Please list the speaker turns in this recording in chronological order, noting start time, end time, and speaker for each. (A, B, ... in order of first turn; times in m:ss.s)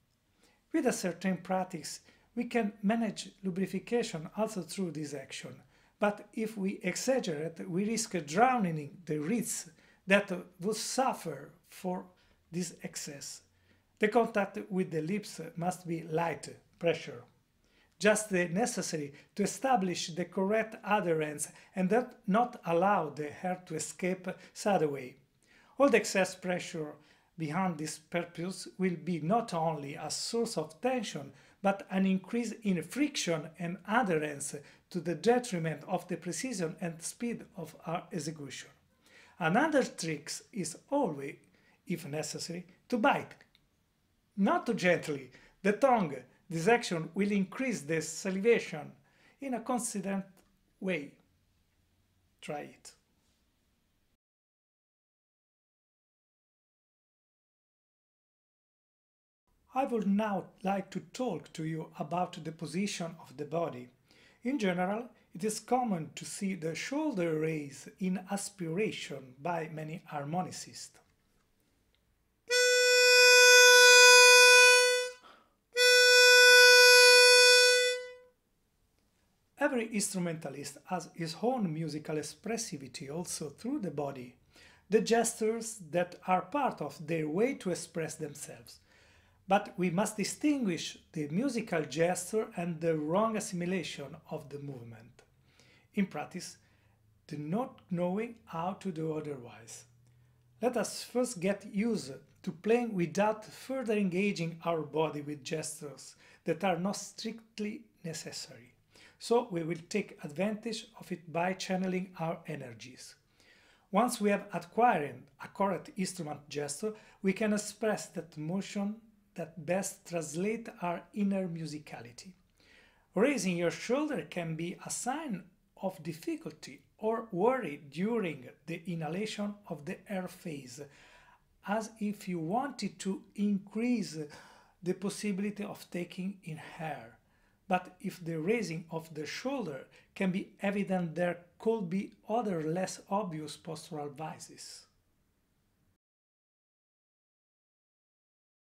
0:00.7-0:13.4 A
0:14.0-0:17.2 A
0:18.0-0:25.2 A
0:25.8-0:38.8 A
0:39.4-0:43.4 A
0:44.4-0:51.2 A
0:52.4-0:53.0 A
0:59.7-1:03.9 A
1:04.4-1:11.0 A
1:19.6-1:24.4 A
1:24.9-1:28.8 A
1:29.5-1:35.2 A
1:35.9-1:36.6 A
1:37.3-1:39.9 A
1:40.6-1:53.2 A
1:53.9-2:02.4 A
2:03.1-2:10.8 A
2:11.6-2:14.3 A
2:14.8-2:24.9 A